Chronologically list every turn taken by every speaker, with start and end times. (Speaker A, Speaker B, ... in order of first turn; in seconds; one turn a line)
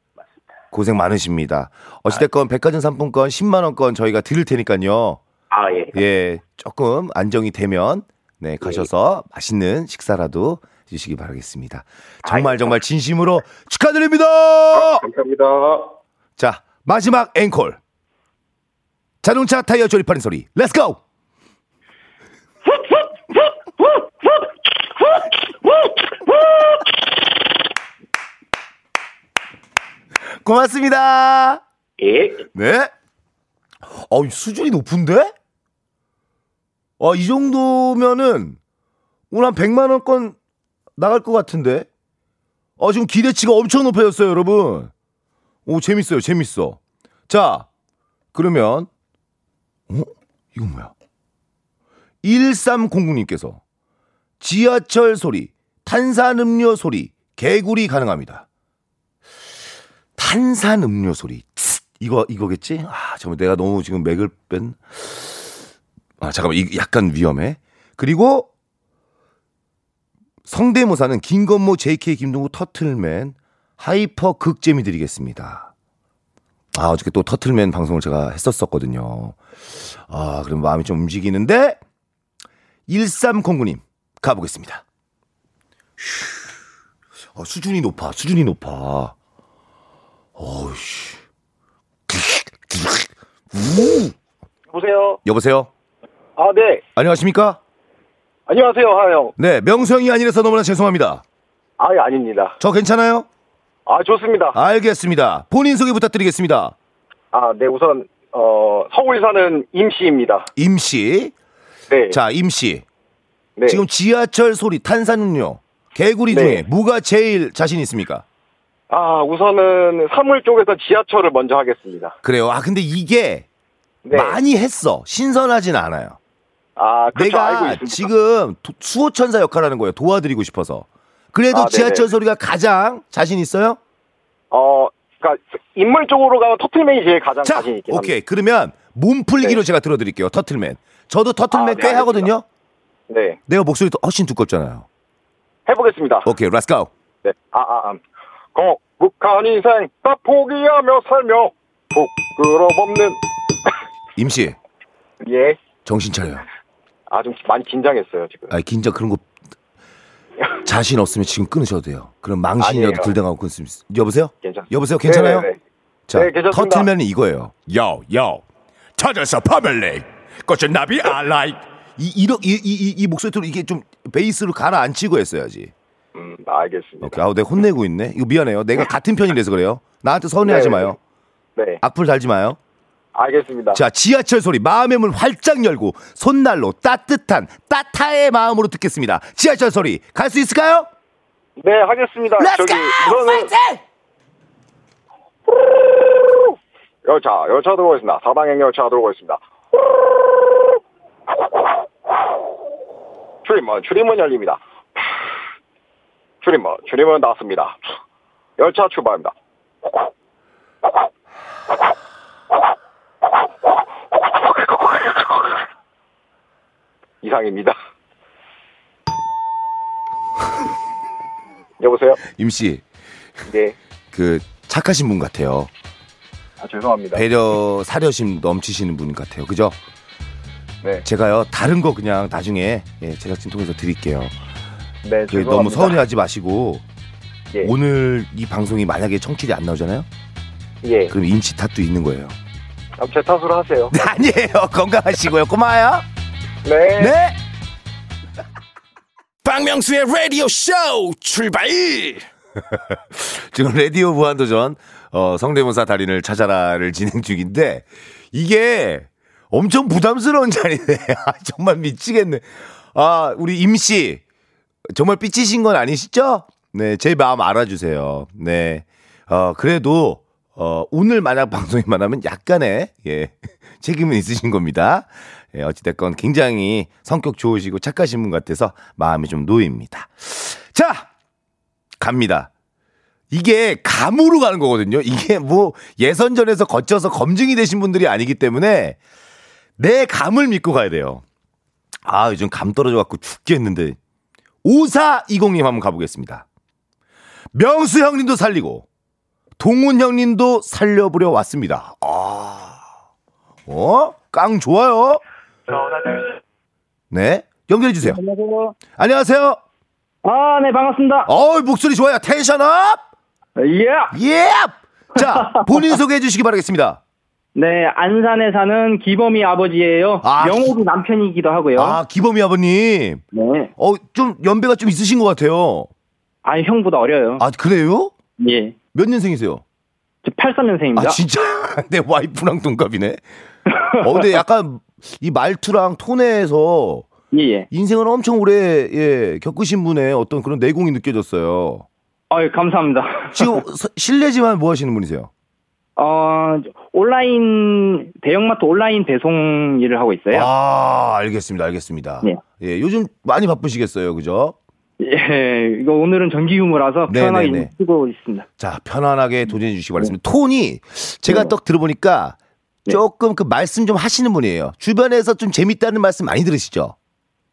Speaker A: 0.7-5.2
Speaker B: 5.5-6.0
Speaker A: 5.9-15.0
Speaker B: 8.6-8.9
Speaker B: 12.2-12.7
Speaker C: 14.8-15.9
Speaker A: 16.4-17.8
Speaker A: 19.2-21.0
Speaker B: 26.2-26.5
Speaker A: 30.4-31.6
Speaker B: 32.0-32.5
Speaker A: 32.5-32.9
Speaker A: 33.9-35.3
Speaker A: 37.0-38.6
Speaker A: 39.3-40.4
Speaker A: 41.0-41.9
Speaker A: 42.8-44.9
Speaker A: 45.6-47.7
Speaker A: 48.3-48.9
Speaker A: 49.9-50.9
Speaker A: 52.2-53.6
Speaker A: 54.4-58.5
Speaker A: 60.2-65.5
Speaker A: 66.2-68.5
Speaker A: 70.4-75.7
Speaker A: 76.7-81.8
Speaker A: 82.9-84.8
Speaker A: 86.0-86.3
Speaker A: 87.3-89.1
Speaker A: 90.3-91.2
Speaker A: 92.1-94.2
Speaker C: 94.7-95.2
Speaker A: 95.2-95.7
Speaker C: 96.4-96.8
Speaker A: 97.0-97.6
Speaker C: 98.5-99.3
Speaker A: 99.4-101.2
Speaker C: 101.8-102.6
Speaker A: 102.6-103.3
Speaker C: 103.8-104.6
Speaker A: 104.5-106.7
Speaker C: 107.3-110.5
Speaker A: 110.5-111.3
Speaker C: 111.9-112.2
Speaker A: 112.1-112.8
Speaker C: 113.6-113.8
Speaker A: 113.7-118.2
Speaker C: 116.3-116.6
Speaker C: 118.9-122.2
Speaker A: 122.2-123.5
Speaker C: 124.0-124.4
Speaker A: 124.1-126.2
Speaker C: 126.8-128.1
Speaker A: 127.1-133.8
Speaker C: 131.5-132.1
Speaker C: 134.5-138.1
Speaker A: 137.4-142.4
Speaker C: 141.5-142.3
Speaker C: 143.1-143.4
Speaker A: 143.5-144.9
Speaker C: 145.7-146.3
Speaker A: 146.2-146.9
Speaker C: 147.2-148.0
Speaker C: 148.5-153.2
Speaker A: 154.2-154.6
Speaker C: 155.2-155.6
Speaker A: 155.8-156.4
Speaker C: 157.1-158.5
Speaker A: 158.5-159.2
Speaker A: 160.6-165.5
Speaker C: 162.6-163.1
Speaker C: 164.4-165.6
Speaker A: 166.1-168.4
Speaker C: 166.1-166.9
Speaker A: 168.9-175.7
Speaker C: 176.1-177.2
Speaker A: 177.0-181.0
Speaker C: 180.4-180.9
Speaker A: 181.8-182.6
Speaker C: 183.1-183.8
Speaker A: 183.7-190.9
Speaker C: 191.6-193.5
Speaker A: 192.4-193.8
Speaker C: 196.1-196.4
Speaker C: 197.0-199.4
Speaker C: 203.4-204.6
Speaker C: 206.4-207.8
Speaker C: 208.6-209.3
Speaker C: 214.3-215.6
Speaker C: 217.2-217.8
Speaker C: 221.8-222.2
Speaker A: 222.2-222.8
Speaker C: 223.5-223.8
Speaker A: 224.1-225.7
Speaker C: 226.6-227.2
Speaker A: 227.1-229.8
Speaker A: 231.0-234.3
Speaker C: 235.0-236.0
Speaker A: 235.3-236.8
Speaker A: 237.6-240.1
Speaker C: 240.8-241.1
Speaker A: 241.1-242.3
Speaker C: 243.0-243.9
Speaker A: 243.9-246.0
Speaker C: 246.6-247.1
Speaker A: 246.9-247.4
Speaker D: 249.4-252.2
Speaker A: 252.7-264.2
Speaker A: 264.9-281.1
Speaker A: 282.0-282.5
Speaker A: 283.3-289.0
Speaker A: 289.8-291.2
Speaker A: 292.0-294.0
Speaker A: 294.6-296.4
Speaker A: 297.5-298.9
Speaker A: 299.6-302.8
Speaker A: 303.7-305.2
Speaker A: 307.1-308.2
Speaker E: 308.1-308.8
Speaker A: 308.9-309.6
Speaker E: 310.2-311.3
Speaker A: 311.2-313.0
Speaker E: 313.6-314.1
Speaker A: 314.1-317.0
Speaker E: 315.3-315.6
Speaker E: 317.5-322.0
Speaker A: 320.2-320.7
Speaker A: 321.8-323.2
Speaker E: 323.3-323.7
Speaker A: 323.8-325.9
Speaker E: 326.4-327.4
Speaker A: 327.4-328.1
Speaker E: 328.4-328.8
Speaker A: 328.9-329.6
Speaker E: 330.2-331.2
Speaker A: 330.9-333.2
Speaker E: 333.8-334.3
Speaker A: 334.0-337.1
Speaker E: 337.3-337.7
Speaker A: 337.7-341.9
Speaker E: 342.3-343.6
Speaker A: 343.3-345.3
Speaker E: 346.0-350.5
Speaker A: 350.3-354.6
Speaker E: 355.0-358.5
Speaker A: 357.1-357.7
Speaker A: 358.6-362.4
Speaker A: 362.9-366.9